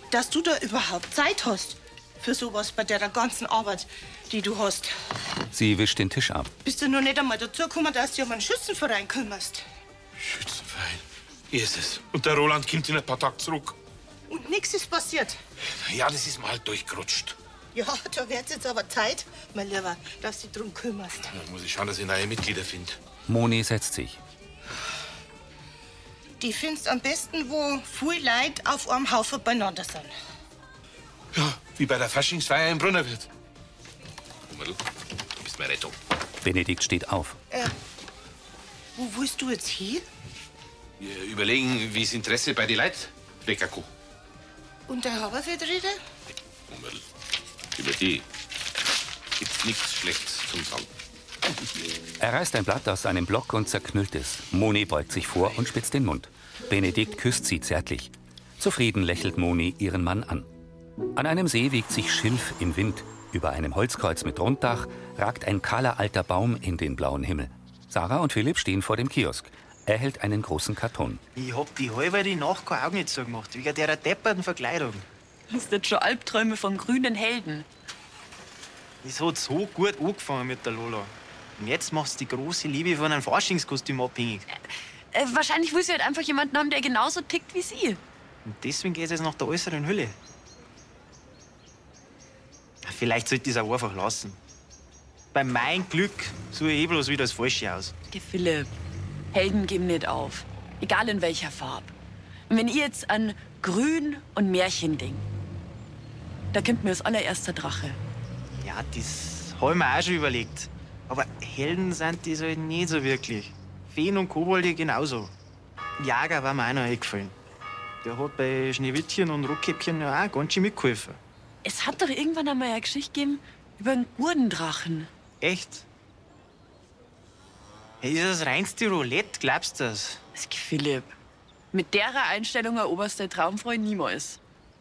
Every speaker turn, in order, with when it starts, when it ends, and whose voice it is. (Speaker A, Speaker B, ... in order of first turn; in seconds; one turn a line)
Speaker A: 0.1-4.9
Speaker B: 5.5-6.5
Speaker A: 6.6-9.6
Speaker C: 10.2-13.8
Speaker A: 14.3-15.4
Speaker C: 15.8-17.4
Speaker A: 17.7-21.3
Speaker C: 21.3-23.0
Speaker B: 23.3-24.2
Speaker A: 26.4-30.1
Speaker C: 31.3-33.3
Speaker C: 34.5-34.8
Speaker C: 35.4-36.0
Speaker B: 36.4-37.4
Speaker A: 39.0-40.0
Speaker C: 41.0-43.9
Speaker A: 44.9-46.0
Speaker C: 46.7-47.0
Speaker C: 47.7-48.2
Speaker C: 49.4-50.9
Speaker B: 52.2-60.5
Speaker B: 61.1-71.2
Speaker D: 71.3-75.0
Speaker E: 75.5-77.7
Speaker D: 79.0-84.4
Speaker E: 85.1-88.0
Speaker D: 88.4-90.2
Speaker D: 92.8-94.4
Speaker D: 95.3-97.9
Speaker E: 98.1-98.7
Speaker E: 99.3-101.9
Speaker E: 102.5-105.2
Speaker E: 106.5-108.0
Speaker D: 108.6-115.3
Speaker D: 116.0-117.3
Speaker D: 118.0-121.2
Speaker E: 121.6-125.1
Speaker D: 125.4-125.8
Speaker D: 128.0-130.2
Speaker E: 130.3-131.1
Speaker E: 131.7-134.4